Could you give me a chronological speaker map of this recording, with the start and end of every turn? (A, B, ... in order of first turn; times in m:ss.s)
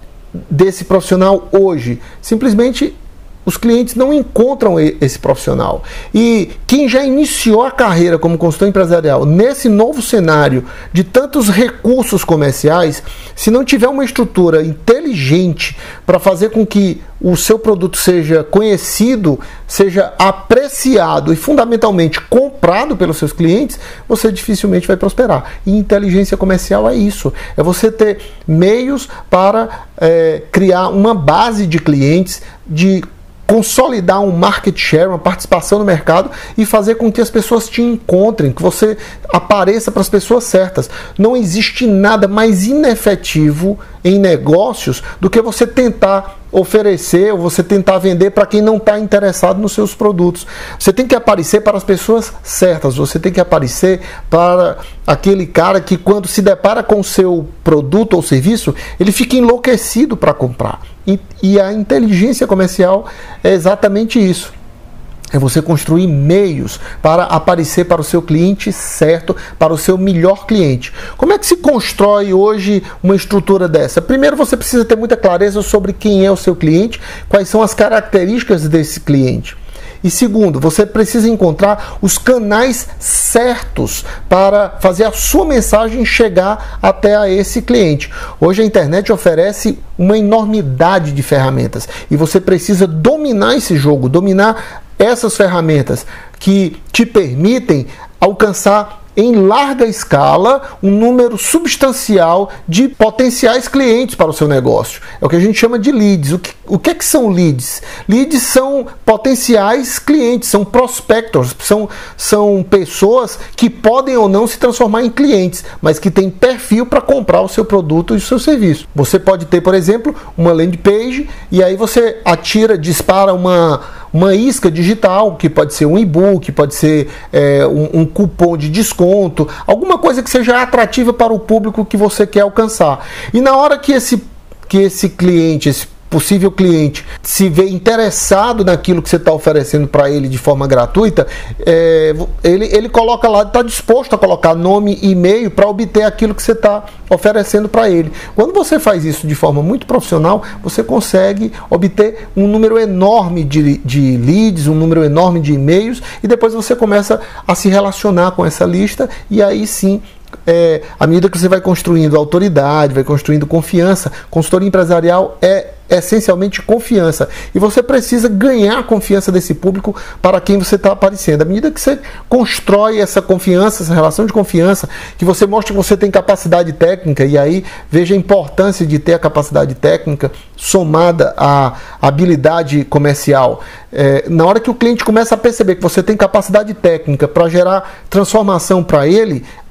0:00.5-1:04.5 A
1:05.3-3:09.4 A